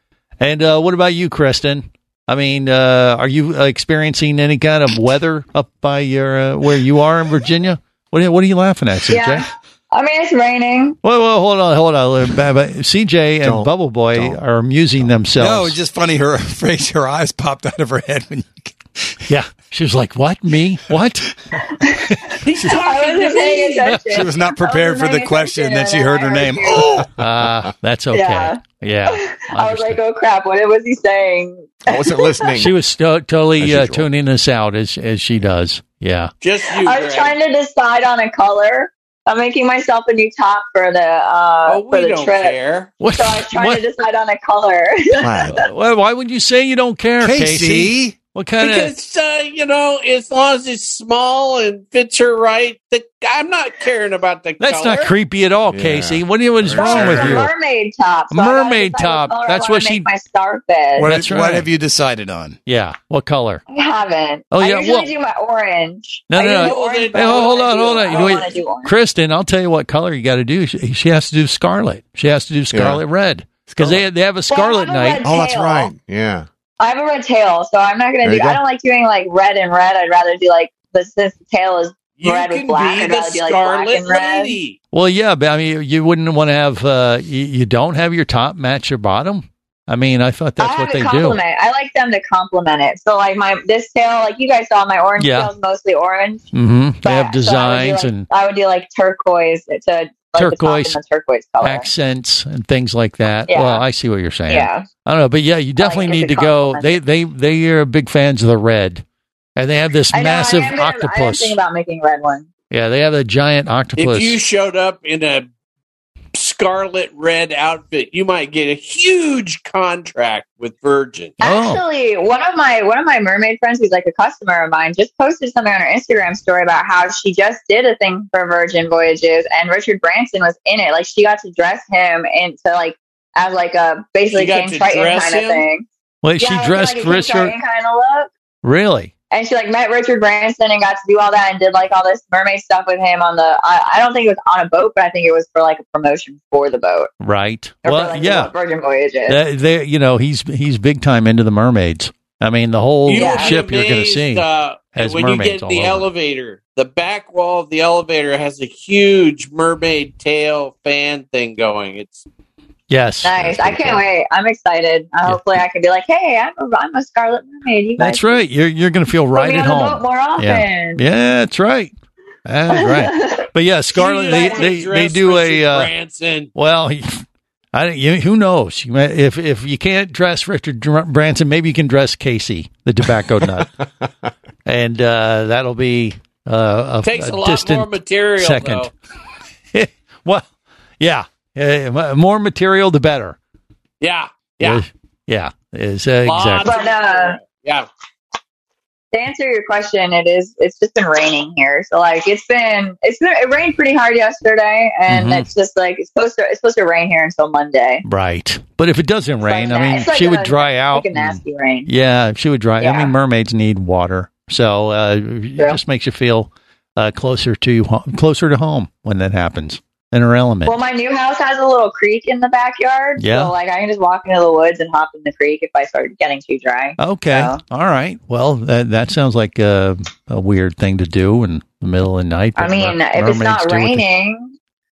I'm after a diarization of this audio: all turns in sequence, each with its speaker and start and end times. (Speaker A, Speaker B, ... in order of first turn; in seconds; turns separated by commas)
Speaker A: 0.4-9.5, Speaker B: 9.1-11.0, Speaker A: 11.0-15.8, Speaker C: 13.4-14.4, Speaker D: 15.4-19.1, Speaker A: 19.3-21.3, Speaker E: 22.4-24.0, Speaker B: 22.7-27.1, Speaker D: 24.1-27.1, Speaker A: 27.2-30.0, Speaker C: 27.2-27.5, Speaker B: 28.1-32.5, Speaker C: 31.9-32.8, Speaker A: 32.5-36.3, Speaker C: 33.6-34.1, Speaker E: 36.4-37.4, Speaker B: 36.8-42.6, Speaker E: 41.7-42.9, Speaker A: 43.0-43.8, Speaker B: 43.1-45.6, Speaker C: 45.1-45.6, Speaker A: 45.5-48.9, Speaker D: 47.2-48.1, Speaker E: 48.6-55.1, Speaker A: 54.6-57.5, Speaker C: 55.7-57.5, Speaker B: 56.7-61.1, Speaker A: 58.3-60.1, Speaker A: 61.0-61.7, Speaker D: 61.0-62.6, Speaker A: 62.7-63.6, Speaker B: 63.7-68.9, Speaker A: 64.5-65.1, Speaker A: 66.3-75.4, Speaker E: 66.5-68.4, Speaker C: 72.7-73.0, Speaker C: 73.8-74.0, Speaker B: 74.5-75.9, Speaker C: 75.2-76.5, Speaker B: 76.8-84.6, Speaker C: 78.2-78.6, Speaker E: 82.2-84.8, Speaker A: 84.9-91.4, Speaker B: 90.6-96.5, Speaker A: 95.2-95.5, Speaker A: 96.5-98.3, Speaker B: 97.0-101.9, Speaker A: 100.3-101.0, Speaker A: 101.6-109.0, Speaker B: 103.5-103.8, Speaker B: 104.5-104.9, Speaker B: 105.8-107.0, Speaker A: 109.6-111.6, Speaker B: 110.1-112.5, Speaker A: 112.7-114.4, Speaker E: 114.0-115.5, Speaker E: 116.3-121.4, Speaker B: 121.4-135.9, Speaker A: 121.4-121.8, Speaker E: 134.3-135.7, Speaker A: 136.2-137.6, Speaker B: 136.4-138.3, Speaker A: 138.6-139.1, Speaker B: 139.3-147.1, Speaker A: 147.2-148.5, Speaker B: 147.8-149.4, Speaker A: 149.3-156.1, Speaker E: 153.1-162.2, Speaker B: 153.1-153.5, Speaker A: 162.9-164.0, Speaker B: 163.2-168.4, Speaker A: 168.0-171.9, Speaker B: 169.3-171.0, Speaker A: 172.4-175.9, Speaker B: 172.7-173.5, Speaker E: 173.9-176.5, Speaker A: 176.6-183.8, Speaker A: 184.7-188.9, Speaker E: 187.0-188.9, Speaker A: 189.7-190.5, Speaker A: 191.0-193.4, Speaker E: 194.0-194.8, Speaker A: 194.6-196.8, Speaker E: 196.2-197.9, Speaker B: 196.7-197.4, Speaker B: 199.1-208.0, Speaker A: 205.1-205.5, Speaker A: 208.0-220.8, Speaker B: 209.4-211.9, Speaker B: 212.8-213.1, Speaker B: 220.7-227.6, Speaker A: 223.2-223.5, Speaker A: 227.0-234.1, Speaker B: 232.6-234.6